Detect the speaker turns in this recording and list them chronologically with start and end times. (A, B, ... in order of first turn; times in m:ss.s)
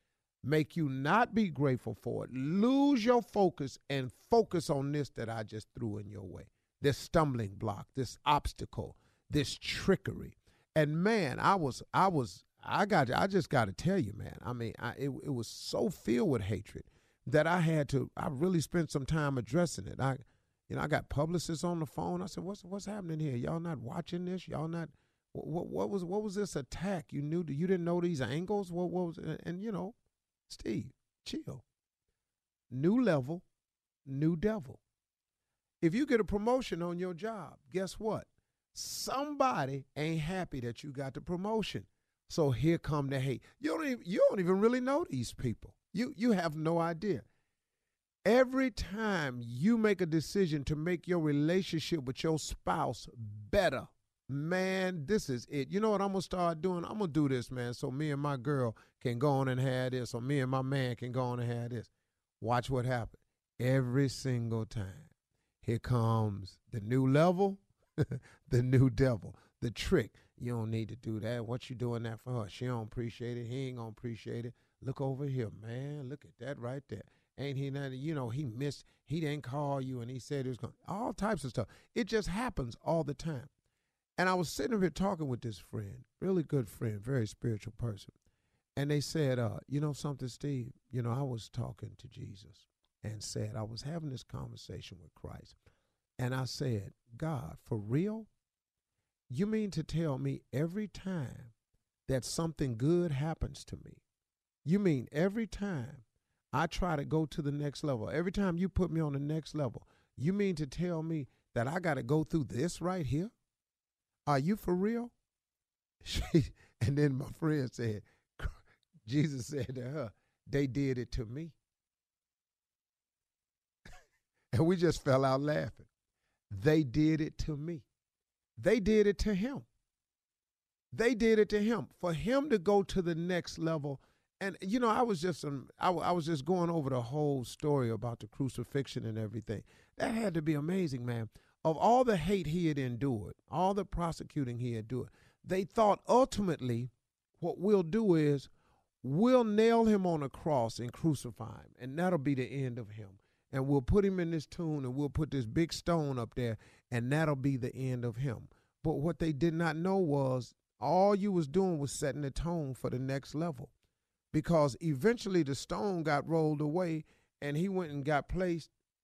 0:00.4-0:20.2 A
0:20.7-0:29.9 A
0:30.5-0:31.6 A
0:32.7-0:33.4 A
0:34.1-0:34.8 A
0:35.8-0:47.2 A
0:48.3-1:01.9 A
1:02.4-1:05.0 A
1:05.6-1:07.6 A
1:08.5-1:23.5 A
1:24.2-1:28.1 A
1:28.8-1:35.5 A
1:36.2-1:38.3 A
1:39.3-1:41.5 A
1:42.1-1:44.0 A
1:44.6-1:46.0 A
1:46.5-1:53.3 A
1:54.3-1:55.1 A
1:56.8-1:58.0 A
1:59.1-2:01.5 A
2:04.6-2:05.8 A
2:06.5-2:07.8 A
2:08.6-2:09.6 A
2:10.9-2:26.9 A
2:27.4-2:28.4 A
2:29.0-2:43.7 A
2:44.3-2:48.7 A